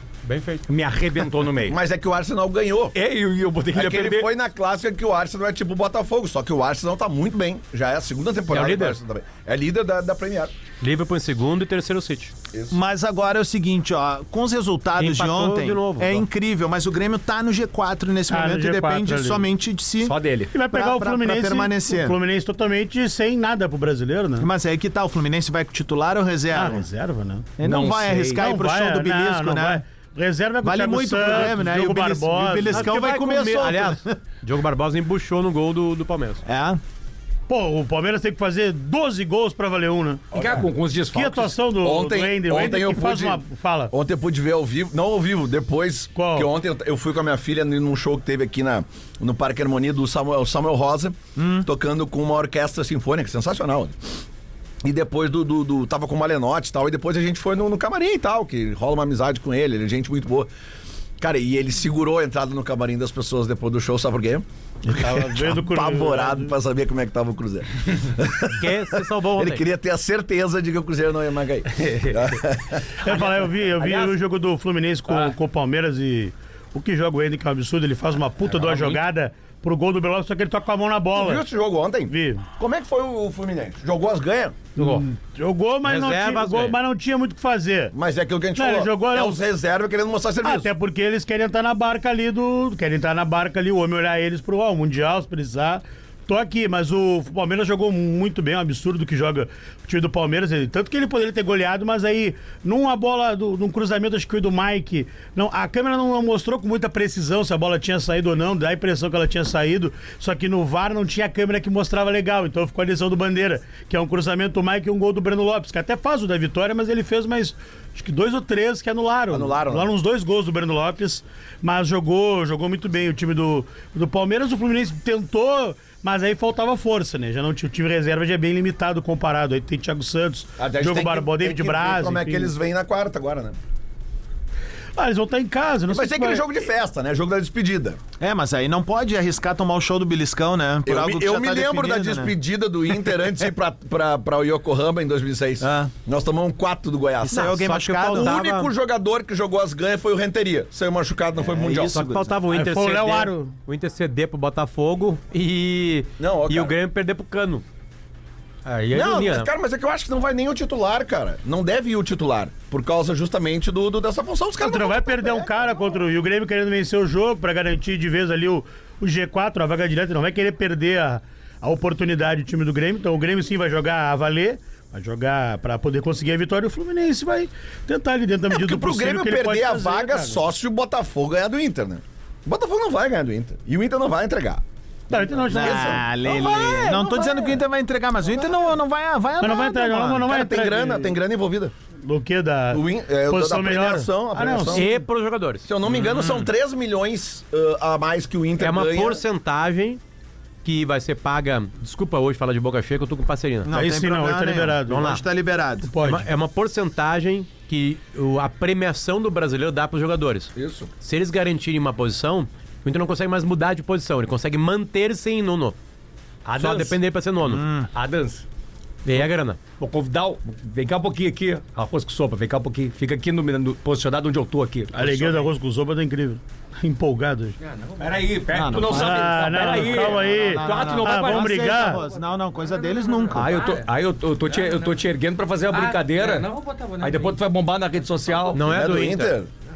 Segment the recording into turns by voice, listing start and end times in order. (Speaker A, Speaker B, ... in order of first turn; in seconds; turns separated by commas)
Speaker A: 0.2-0.6, Speaker B: 0.7-1.8, Speaker C: 1.7-3.0, Speaker B: 2.9-4.3, Speaker C: 3.7-10.5, Speaker A: 8.5-9.0, Speaker A: 10.8-12.3, Speaker D: 12.7-22.2, Speaker A: 15.0-16.2, Speaker E: 18.3-19.5, Speaker B: 20.0-20.5, Speaker E: 20.5-24.5, Speaker D: 24.4-26.9, Speaker E: 26.5-27.5, Speaker D: 27.6-29.8, Speaker B: 27.6-28.4, Speaker E: 28.4-32.9, Speaker D: 30.6-34.2, Speaker A: 32.7-36.4, Speaker D: 36.5-36.8, Speaker E: 37.5-40.2, Speaker C: 40.3-40.7, Speaker B: 40.3-41.6, Speaker E: 41.1-43.9, Speaker C: 41.7-54.0, Speaker E: 46.1-46.5, Speaker D: 51.4-51.7, Speaker C: 54.8-60.5, Speaker C: 61.2-64.5, Speaker E: 64.8-66.5, Speaker C: 65.0-72.9, Speaker A: 68.5-69.7, Speaker B: 71.8-72.2, Speaker E: 73.0-81.4, Speaker B: 73.1-74.2, Speaker B: 75.1-75.3, Speaker B: 78.5-79.0, Speaker C: 81.1-84.6, Speaker E: 82.1-82.5, Speaker E: 84.8-87.9, Speaker A: 84.8-85.1, Speaker A: 85.8-86.8, Speaker C: 87.9-90.7, Speaker E: 88.5-89.4, Speaker E: 90.4-132.5, Speaker C: 119.3-119.9, Speaker C: 130.6-133.6, Speaker E: 135.0-136.4, Speaker C: 135.9-138.0, Speaker D: 138.2-142.3, Speaker C: 140.9-151.9, Speaker D: 142.9-143.3, Speaker D: 145.6-145.9, Speaker D: 147.2-148.3, Speaker A: 147.3-148.7, Speaker D: 151.3-152.4, Speaker A: 151.9-157.6, Speaker E: 152.5-153.6, Speaker C: 156.2-156.8, Speaker A: 158.7-159.5, Speaker C: 158.9-165.5, Speaker E: 164.6-180.4, Speaker C: 178.5-187.6, Speaker E: 185.1-186.1, Speaker D: 185.5-190.3, Speaker E: 189.4-191.1, Speaker C: 190.2-191.7, Speaker E: 192.1-195.0, Speaker C: 192.7-194.9, Speaker A: 194.7-195.7, Speaker C: 195.7-199.2, Speaker B: 195.9-196.5, Speaker A: 198.6-200.0, Speaker A: 200.6-203.7, Speaker D: 203.6-205.9, Speaker E: 203.7-205.2, Speaker A: 204.9-205.2, Speaker E: 205.8-206.3, Speaker A: 206.0-215.8, Speaker C: 210.6-210.9, Speaker B: 216.4-217.0, Speaker A: 216.6-217.7, Speaker D: 217.5-217.9, Speaker B: 217.9-218.4, Speaker A: 219.0-219.6, Speaker B: 219.8-225.5, Speaker E: 224.9-227.6, Speaker F: 227.6-228.4, Speaker B: 228.0-231.7, Speaker D: 228.5-233.6, Speaker E: 228.9-232.0, Speaker F: 231.6-233.9, Speaker B: 233.3-236.5, Speaker F: 234.5-235.0, Speaker F: 235.7-237.4, Speaker B: 237.0-238.7, Speaker A: 238.5-239.4, Speaker C: 238.5-239.5